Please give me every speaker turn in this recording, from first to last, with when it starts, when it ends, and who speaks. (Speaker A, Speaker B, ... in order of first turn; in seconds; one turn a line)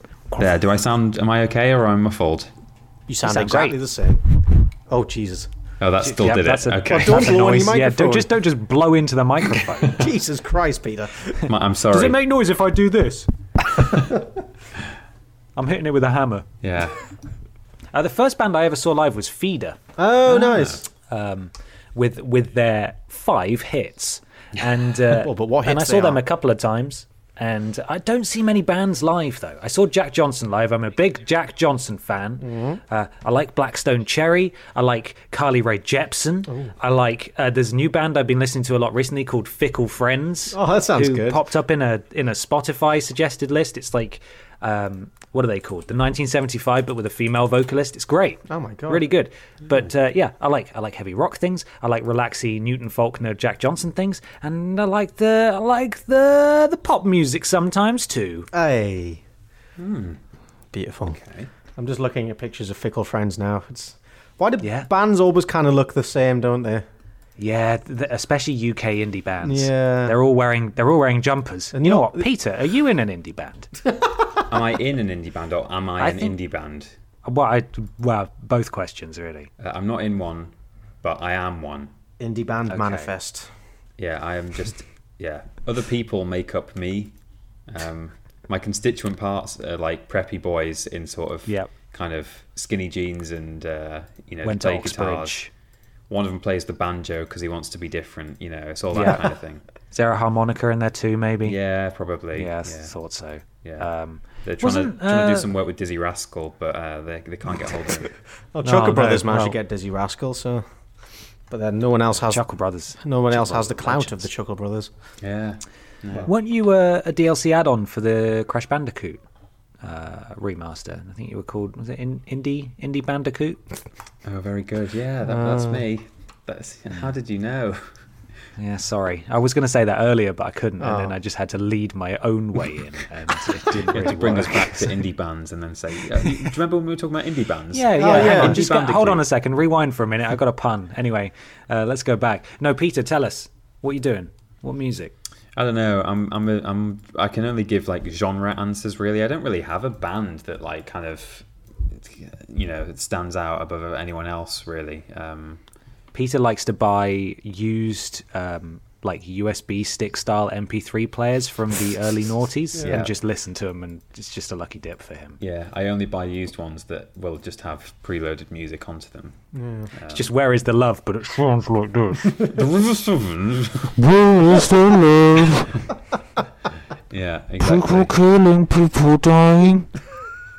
Speaker A: 0.4-2.5
Speaker B: 3.1-4.2
Speaker C: 3.2-3.8
Speaker B: 4.9-5.5
Speaker A: 5.8-7.5
Speaker C: 6.0-10.0
Speaker B: 6.9-8.4
Speaker B: 9.8-11.4
Speaker A: 11.5-12.2
Speaker C: 11.9-13.3
Speaker C: 15.6-16.5
Speaker A: 16.6-17.0
Speaker C: 17.9-58.5
Speaker B: 20.0-20.9
Speaker B: 25.1-26.2
Speaker B: 32.4-32.8
Speaker B: 40.5-41.4
Speaker B: 48.5-49.1
Speaker B: 58.5-59.2
Speaker A: 59.8-60.2
Speaker B: 60.7-61.2
Speaker A: 61.1-61.5
Speaker B: 61.8-66.9
Speaker C: 64.6-64.9
Speaker C: 67.4-73.7
Speaker B: 69.4-70.2
Speaker B: 71.7-72.3
Speaker A: 74.5-76.9
Speaker C: 76.0-76.4
Speaker C: 77.2-79.5
Speaker A: 79.6-81.9
Speaker B: 82.2-83.5
Speaker C: 82.7-83.1
Speaker A: 84.0-87.1
Speaker A: 87.7-95.4
Speaker C: 94.4-95.5
Speaker A: 96.1-99.6
Speaker C: 98.9-99.2
Speaker C: 99.9-101.6
Speaker A: 101.4-102.9
Speaker C: 102.3-105.5
Speaker A: 104.4-108.1
Speaker B: 108.5-110.7
Speaker C: 108.6-109.6
Speaker B: 111.5-112.5
Speaker C: 112.2-114.3
Speaker B: 113.0-114.9
Speaker A: 115.2-116.3
Speaker C: 116.2-119.2
Speaker C: 119.8-123.6
Speaker A: 124.2-127.9
Speaker B: 125.3-125.8
Speaker C: 128.6-134.9
Speaker B: 130.8-131.2
Speaker A: 133.8-139.3
Speaker C: 137.7-145.1
Speaker B: 138.0-138.6
Speaker A: 145.6-155.6
Speaker C: 156.1-165.4
Speaker B: 162.8-163.0
Speaker A: 162.8-163.1
Speaker A: 165.4-169.4
Speaker B: 169.5-169.9
Speaker A: 169.9-170.3
Speaker C: 170.1-172.4
Speaker A: 172.3-173.9
Speaker D: 174.0-175.7
Speaker A: 177.1-178.1
Speaker C: 177.7-178.1
Speaker D: 177.7-179.9